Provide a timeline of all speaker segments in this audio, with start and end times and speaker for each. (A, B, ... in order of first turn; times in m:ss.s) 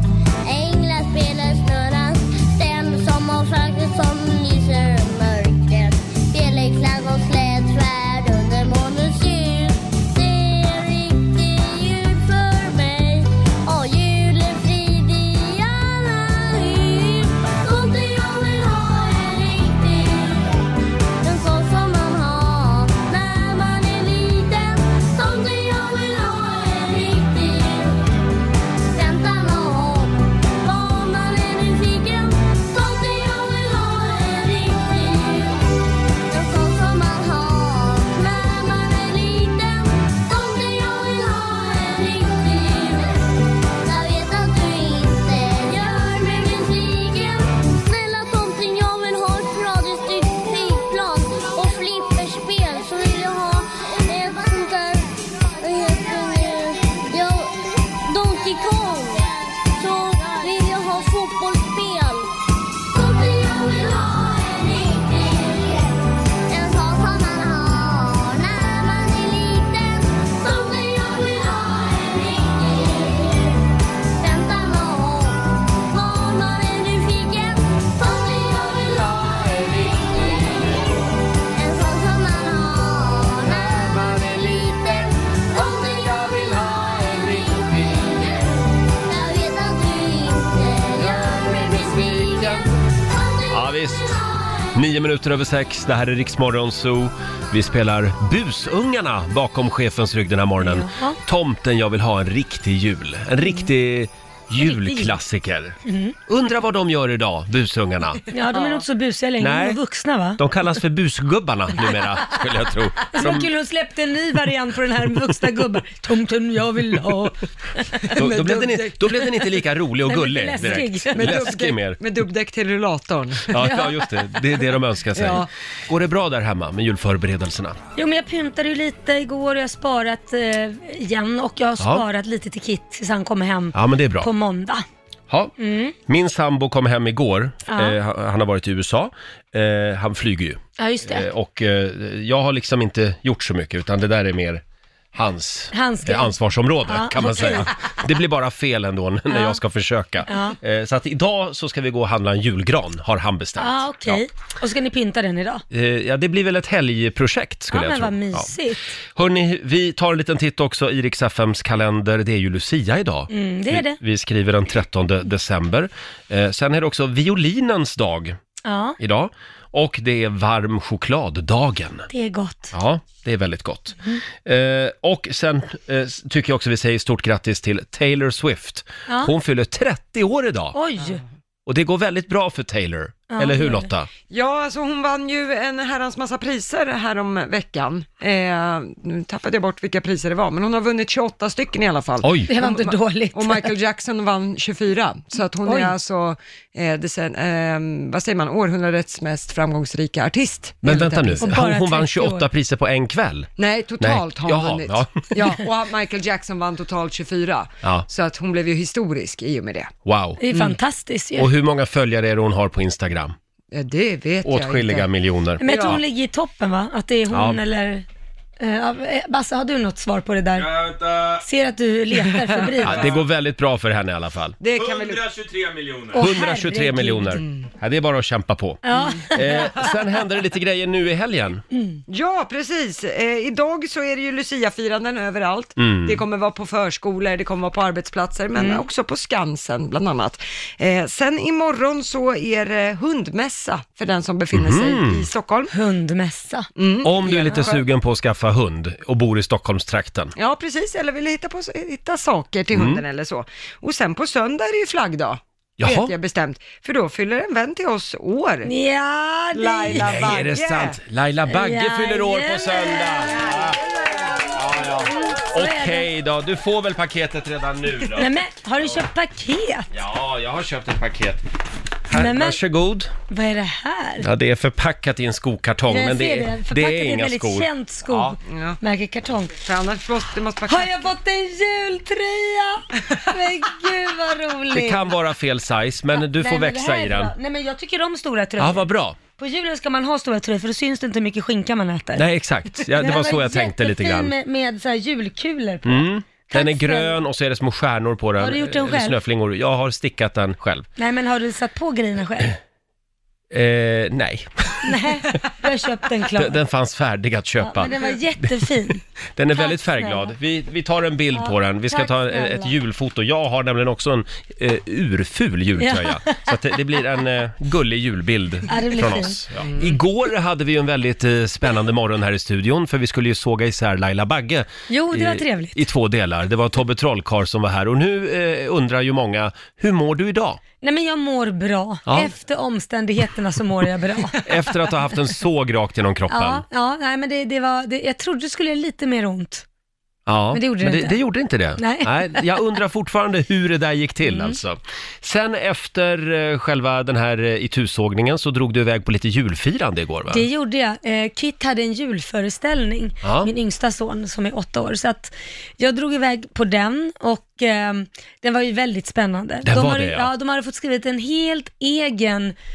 0:00.4-0:20.6 A
0:21.2-0:28.0 A
0:28.9-0:35.6 A
0:36.3-0:43.2 A
0:43.8-1:02.3 A
1:02.9-1:05.9 A
1:06.5-1:13.6 A
1:14.2-1:20.8 A
1:21.5-1:28.4 A
1:29.0-1:33.6 A
1:33.5-1:34.2 B
1:34.1-1:34.6 A
1:34.7-1:48.2 B
1:40.6-1:41.2 C
1:43.4-1:43.7 C
1:44.6-1:45.2 C
1:45.8-1:46.2 C
1:48.3-1:50.4 C
1:48.5-1:48.8 D
1:49.4-1:49.8 B
1:50.4-1:53.5 B
1:53.1-1:57.3 C
1:58.1-1:59.2 D
1:58.1-2:02.0 B
2:00.0-2:01.4 C
2:01.1-2:03.6 D
2:03.5-2:07.8 B
2:03.6-2:03.9 C
2:05.1-2:05.5 D
2:08.0-2:14.8 C
2:11.8-2:12.0 B
2:13.7-2:14.3 B
2:15.6-2:15.9 C
2:16.0-2:24.6 B
2:17.7-2:18.0 C
2:20.8-2:21.3 C
2:25.1-2:34.2 B
2:25.7-2:26.3 C
2:26.8-2:27.7 C
2:29.3-2:29.6 C
2:30.2-2:30.6 C
2:33.6-2:35.6 C
2:35.7-2:38.5 B
2:37.7-2:38.9 C
2:39.1-2:48.4 B
2:43.3-2:44.0 C
2:48.6-2:49.0 C
2:49.0-2:52.1 B
2:52.1-2:52.7 C
2:52.7-3:00.8 B
2:59.1-2:59.3 C
3:00.7-3:01.2 C
3:01.6-3:04.1 B
3:03.3-3:03.9 C
3:04.3-3:21.6 D
3:12.2-3:12.5 B
3:12.5-3:13.8 C
3:15.6-3:15.9 C
3:20.8-3:25.3 B
3:21.4-3:22.5 C
3:23.6-3:29.9 D
3:30.0-3:30.6 B
3:30.4-3:31.5 C
3:31.4-3:33.3 B
3:33.7-3:35.1 D
3:34.4-3:36.0 B
3:35.6-3:38.0 C
3:35.6-3:36.0 D
3:37.3-3:37.6 B
3:38.6-3:40.7 C
3:40.6-3:41.4 E
3:41.4-3:43.0 C
3:42.2-3:42.8 D
3:42.8-3:44.6 B
3:44.6-3:45.3 D
3:44.7-3:46.2 E
3:46.1-3:47.4 C
3:46.2-3:48.8 B
3:47.4-3:47.7 D
3:48.8-3:49.7 C
3:48.9-3:49.2 D
3:49.3-3:51.6 B
3:51.7-3:52.0 C
3:52.1-4:05.7 D
3:55.8-3:56.2 B
3:58.5-3:58.9 C
4:04.5-4:05.2 B
4:05.7-4:06.7 C
4:06.7-4:07.8 D
4:07.0-4:10.3 B
4:10.4-4:18.7 D
4:12.7-4:13.0 B
4:15.8-4:16.1 B
4:18.6-4:20.2 C
4:19.5-4:21.0 D
4:19.9-4:23.8 B
4:21.5-4:23.3 C
4:24.5-4:28.3 B
4:25.1-4:26.1 C
4:28.2-4:29.9 C
4:29.9-4:31.4 B
4:32.1-4:33.1 B
4:32.1-4:32.6 C
4:33.3-4:34.2 C
4:34.2-4:38.3 B
4:35.9-4:39.6 C
4:38.4-4:38.8 D
4:39.5-4:41.0 D
4:40.7-4:45.1 C
4:44.7-4:47.3 B
4:46.1-4:52.2 C
4:48.6-4:49.2 B
4:52.2-4:54.3 B
4:52.9-4:57.2 C
4:55.8-5:00.9 B
4:58.4-4:59.2 C
5:01.0-5:02.5 C
5:03.5-5:04.9 B
5:04.8-5:06.6 C
5:06.3-5:08.0 B
5:07.6-5:09.0 C
5:09.4-5:30.6 B
5:09.5-5:10.3 C
5:11.3-5:12.7 C
5:15.8-5:16.6 C
5:18.7-5:19.4 C
5:24.9-5:25.8 C
5:30.8-5:34.4 C
5:34.4-5:36.6 B
5:36.3-5:39.6 C
5:40.3-5:50.4 B
5:40.5-5:41.2 C
5:41.8-5:42.5 C
5:44.2-5:44.6 C
5:50.3-6:02.5 C
5:53.2-5:53.5 B
5:59.6-6:00.3 B